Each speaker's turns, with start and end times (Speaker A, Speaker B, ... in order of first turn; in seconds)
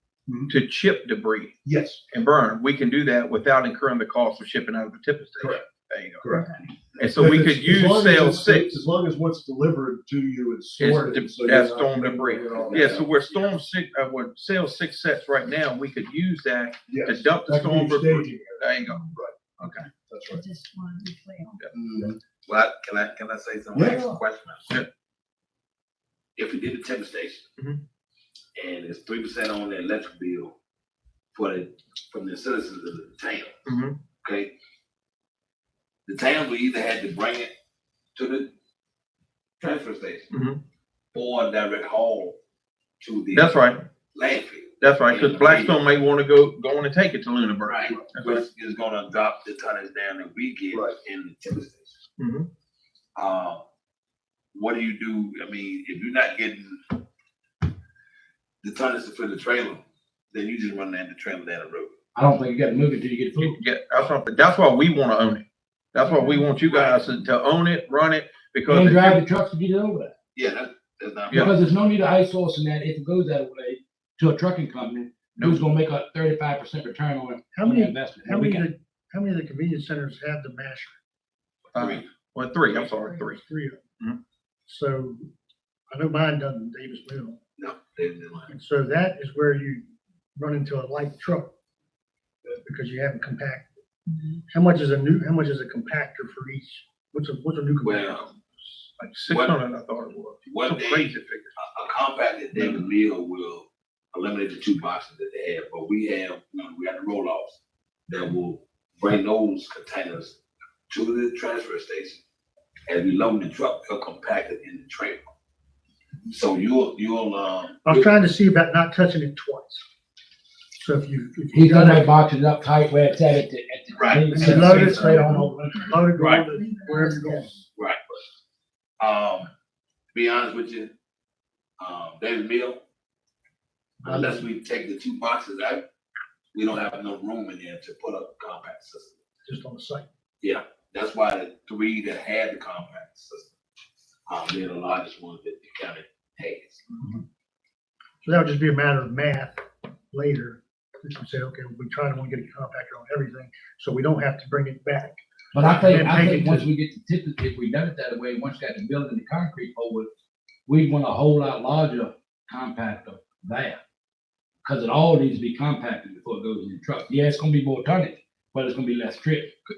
Speaker A: 0.3-0.5, 1.6-2.0, 6.2-13.1, 16.9-19.4, 20.1-20.4, 23.7-24.0
Speaker B: 0.5-1.6, 2.1-6.4, 7.0-8.8, 10.8-19.9, 27.6-27.8, 33.6-34.0, 40.3-40.6, 43.3-43.8, 44.8-48.4, 52.2-52.5, 63.4-69.2, 75.3-75.6, 81.7-83.4, 99.0-101.5
Speaker C: 12.6-13.1, 22.4-24.7, 26.4-27.5, 28.6-30.5, 31.3-33.6, 34.2-34.5, 36.1-37.5, 38.1-38.5, 39.6-40.3, 41.1-42.4, 43.0-43.5, 44.1-45.8, 47.6-51.9, 53.1-53.6, 54.5-57.0, 58.6-61.9, 66.5-67.3, 70.3-71.5, 81.7-82.0, 87.6-88.5, 97.8-98.2, 99.3-99.6, 100.5-110.3, 110.9-112.2, 112.9-115.3, 116.3-117.8, 124.0-125.3, 126.2-126.5, 127.8-128.2, 129.0-129.5, 130.1-130.9, 131.8-132.8, 134.0-135.8, 136.5-139.2, 140.4-143.5, 144.3-146.8
Speaker D: 20.3-21.6, 23.9-24.2, 126.6-127.4
Speaker E: 21.8-22.0, 62.1-63.5, 68.7-70.1, 71.3-78.7, 121.5-125.8, 155.5-160.1, 160.7-163.8, 164.6-169.5
Speaker F: 77.5-81.0, 82.8-83.8, 84.7-85.3, 85.9-87.4, 88.5-91.5, 92.5-93.7, 94.5-98.2, 117.8-119.8, 120.8-122.1, 124.3-127.6, 134.0-134.5, 139.4-140.1, 147.0-147.2, 148.2-155.2, 155.8-156.7